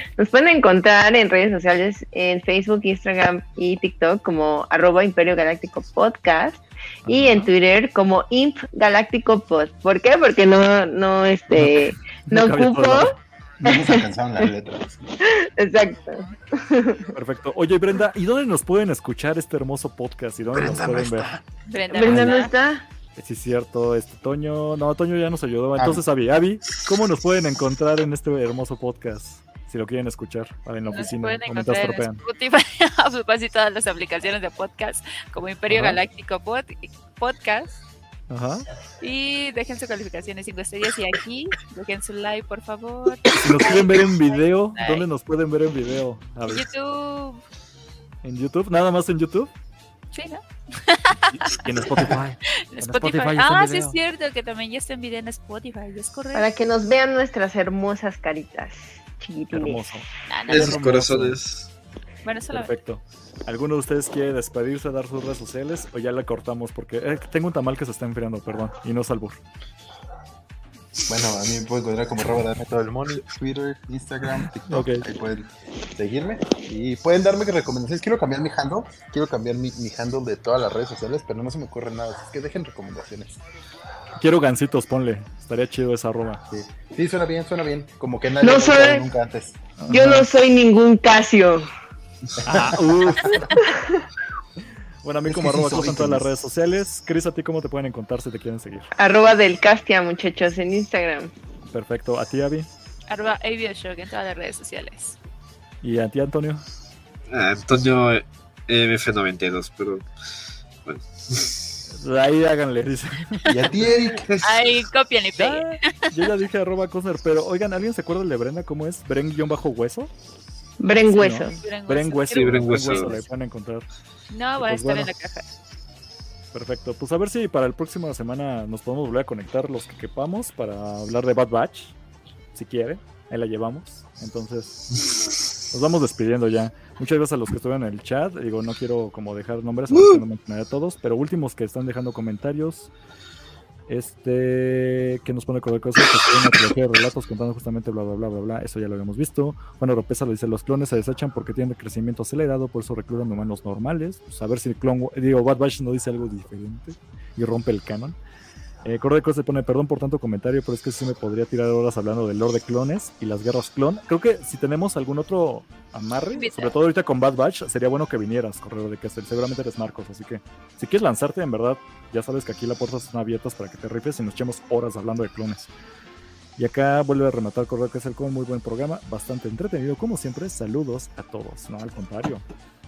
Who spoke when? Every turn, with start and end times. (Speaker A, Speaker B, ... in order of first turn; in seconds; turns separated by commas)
Speaker A: 0.2-13.1, Speaker B: 7.1-7.5, Speaker B: 11.5-13.2, Speaker C: 13.6-14.9, Speaker A: 13.7-14.1, Speaker A: 15.2-17.1, Speaker B: 17.1-21.4, Speaker C: 20.5-21.4, Speaker D: 21.7-22.5, Speaker A: 21.9-22.8, Speaker B: 22.0-22.4, Speaker B: 23.2-32.2, Speaker D: 30.9-37.8, Speaker B: 35.7-36.0, Speaker B: 38.3-38.6, Speaker D: 39.0-45.0, Speaker B: 43.4-46.7, Speaker D: 46.5-47.4, Speaker B: 48.2-49.5, Speaker D: 50.1-51.9, Speaker B: 51.3-54.0, Speaker D: 52.7-56.5, Speaker A: 56.3-59.9, Speaker B: 59.5-61.4, Speaker D: 60.3-60.8, Speaker E: 60.5-61.7, Speaker D: 62.2-62.7, Speaker B: 62.5-69.4, Speaker C: 71.1-83.4, Speaker B: 74.6-75.1, Speaker B: 84.2-86.4, Speaker C: 86.5-89.6, Speaker A: 88.4-89.0, Speaker B: 89.8-90.3, Speaker A: 89.9-91.7, Speaker C: 92.4-93.5, Speaker B: 92.5-93.5, Speaker A: 93.6-93.9, Speaker B: 95.0-98.9, Speaker C: 95.3-96.3, Speaker A: 99.0-101.3, Speaker B: 101.7-102.7, Speaker D: 103.1-105.2, Speaker B: 105.8-106.6, Speaker E: 107.3-110.0, Speaker E: 110.8-111.5, Speaker B: 111.9-113.5, Speaker C: 113.5-114.3, Speaker E: 113.8-114.7, Speaker D: 114.4-116.1, Speaker B: 115.3-120.1, Speaker A: 120.8-121.6, Speaker B: 121.1-123.9, Speaker D: 121.3-123.2, Speaker E: 122.3-123.2, Speaker D: 124.3-125.5, Speaker B: 124.6-125.1, Speaker B: 126.5-131.9, Speaker B: 132.5-134.8, Speaker B: 135.7-142.9, Speaker B: 143.9-158.2, Speaker B: 158.8-175.7, Speaker D: 166.3-166.7, Speaker B: 176.6-182.4